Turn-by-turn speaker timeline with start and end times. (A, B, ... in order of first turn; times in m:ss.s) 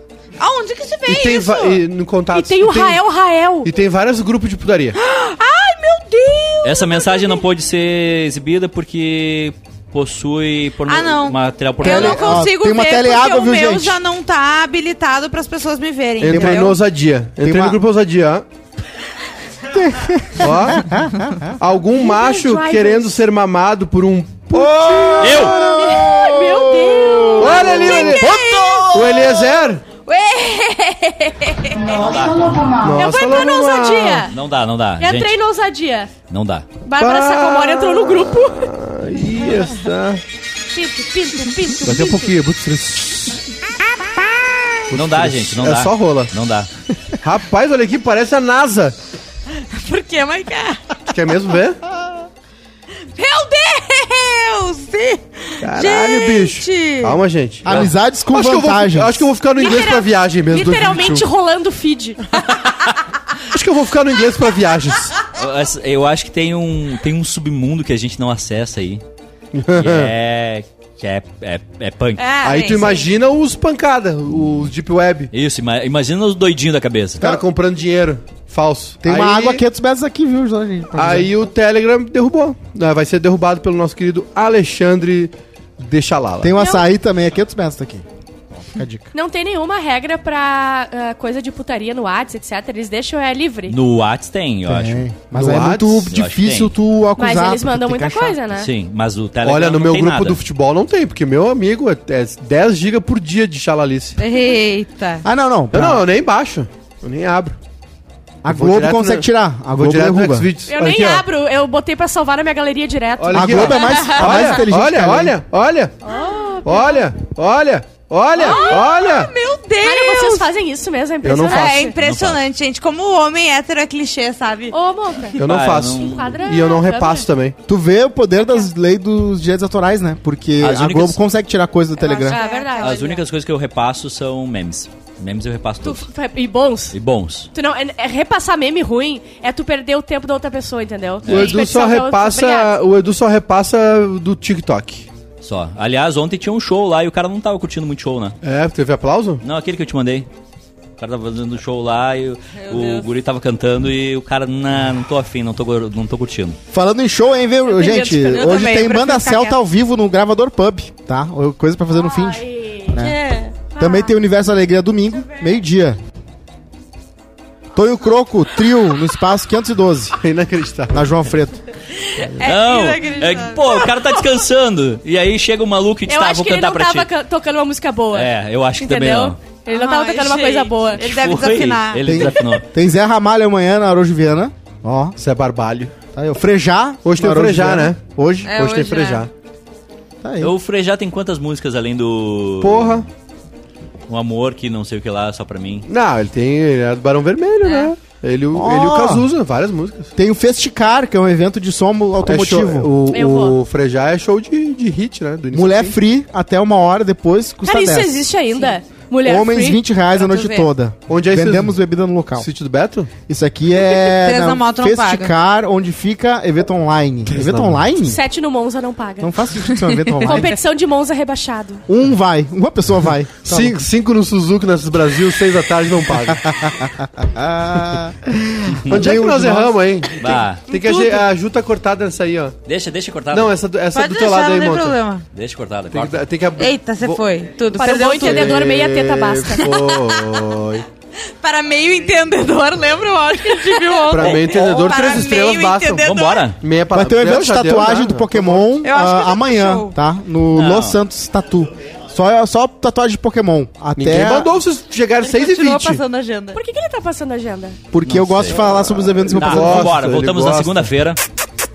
0:00.4-0:01.8 A
0:01.1-0:03.0 B
0:02.3-0:03.7 C
0:03.6-0:05.0 B
0:05.0-0:07.4 A
0:06.6-0:12.5 D
0:10.9-0:16.8 A
0:11.8-0:14.0 E
0:16.2-0:18.5 B
0:16.2-0:16.8 E
0:17.4-0:17.8 E
0:19.7-0:21.6 E
0:20.4-0:21.0 B
0:21.6-0:25.6 B
0:22.0-0:23.2 C
0:24.5-0:29.4 E
0:25.2-0:25.6 D
0:25.6-0:28.3 C
0:27.4-0:28.4 B
0:27.4-0:32.1 A
0:28.9-0:29.8 B
0:31.8-0:32.6 D
0:32.8-0:34.3 B
0:32.9-0:34.4 C
0:34.3-0:35.3 D
0:35.0-0:36.1 C
0:36.3-0:36.7 D
0:36.8-0:38.7 C
0:37.0-0:40.2 B
0:40.7-0:42.3 C
0:41.8-0:43.4 B
0:44.9-0:46.3 B
0:44.9-0:46.7 D
0:47.2-0:49.0 B
0:49.6-0:51.0 A
0:51.1-0:51.8 B
0:53.2-0:57.2 A
0:55.6-1:01.3 B
0:57.6-0:59.3 E
0:59.6-1:02.2 C
1:03.5-1:05.2 B
1:05.3-1:09.0 D
1:09.5-1:10.1 B
1:09.8-1:12.2 D
1:12.2-1:13.0 C
1:12.4-1:13.1 A
1:12.4-1:15.3 B
1:15.3-1:17.3 D
1:17.2-1:19.6 B
1:19.0-1:21.3 E
1:20.9-1:26.5 B
1:26.4-1:29.1 E
1:26.6-1:26.9 C
1:29.1-1:33.8 C
1:33.7-1:35.0 D
1:34.7-1:38.4 E
1:35.3-1:36.1 B
1:36.1-1:36.7 D
1:37.2-1:38.7 C
1:38.5-1:40.4 D
1:39.4-1:44.2 B
1:44.2-1:45.3 A
1:45.2-1:46.0 E
1:45.7-1:47.6 B
1:48.4-1:50.5 E
1:48.5-1:51.3 B
1:50.7-1:54.0 C
1:53.2-1:56.0 B
1:53.3-1:55.4 E
1:53.7-1:54.6 A
1:56.0-1:57.1 C
1:56.6-1:59.3 B
1:58.4-2:00.5 A
1:58.4-1:58.8 C
1:59.8-2:02.0 C
2:01.2-2:02.0 B
2:01.4-2:04.7 A
2:02.0-2:02.4 D
2:04.7-2:05.4 C
2:05.4-2:07.6 B
2:05.4-2:06.4 D
2:05.9-2:07.3 C
2:07.7-2:12.4 E
2:10.6-2:11.2 D
2:12.0-2:13.2 A
2:12.2-2:13.1 C
2:12.8-2:16.1 D
2:15.8-2:17.0 C
2:16.9-2:17.5 D
2:17.5-2:22.7 C
2:21.2-2:21.6 D
2:21.3-2:25.1 B
2:25.4-2:28.4 D
2:28.4-2:29.4 B
2:29.4-2:30.3 D
2:31.0-2:36.6 D
2:32.6-2:33.1 A
2:36.7-2:43.2 E
2:37.8-2:38.5 C
2:37.8-2:39.6 A
2:41.9-2:43.0 C
2:43.0-2:43.7 A
2:43.6-2:44.1 C
2:43.8-2:46.0 E
2:45.3-2:45.5 A
2:47.7-2:50.2 E
2:50.2-2:51.0 B
2:50.9-2:51.6 E
2:52.0-2:53.8 A
2:52.2-2:52.5 B
2:52.4-2:57.1 D
2:56.1-3:01.1 C
2:58.1-2:59.4 D
2:59.7-3:02.4 A
3:01.0-3:02.6 D
3:02.0-3:05.2 E
3:05.2-3:06.0 B
3:06.2-3:08.6 E
3:07.0-3:09.3 B
3:08.4-3:09.3 A
3:10.2-3:10.5 E
3:10.4-3:13.1 D
3:12.6-3:13.1 B
3:14.1-3:15.9 D
3:15.9-3:20.1 B
3:17.6-3:17.9 A
3:18.5-3:19.3 E
3:20.2-3:22.9 E
3:22.2-3:26.0 B
3:23.1-3:23.6 C
3:25.5-3:28.3 E
3:27.6-3:29.8 C
3:29.2-3:32.5 E
3:30.2-3:30.7 A
3:31.1-3:31.8 B
3:32.4-3:33.1 B
3:33.3-3:38.2 E
3:34.0-3:35.4 A
3:37.3-3:37.8 B
3:38.0-3:39.3 C
3:39.2-3:40.5 E
3:40.2-3:41.8 C
3:41.9-3:43.8 E
3:43.4-3:46.4 B
3:46.3-3:49.8 E
3:48.9-3:52.6 B
3:50.2-3:50.6 D
3:50.7-3:51.3 C
3:52.7-3:53.6 D
3:53.3-3:55.0 B
3:53.9-3:55.2 A
3:55.3-3:56.2 D
3:55.9-4:00.8 B
3:56.6-3:58.6 A
3:57.7-3:59.7 C
3:59.7-4:00.4 A
4:01.4-4:06.5 A
4:04.1-4:08.8 B
4:04.2-4:04.7 D
4:06.0-4:06.6 D
4:06.9-4:14.5 E
4:08.8-4:10.0 A
4:10.6-4:11.0 D
4:14.0-4:16.0 B
4:15.3-4:16.6 A
4:16.5-4:17.8 C
4:17.9-4:20.0 E
4:18.0-4:18.6 D
4:18.5-4:20.9 B
4:19.3-4:21.2 D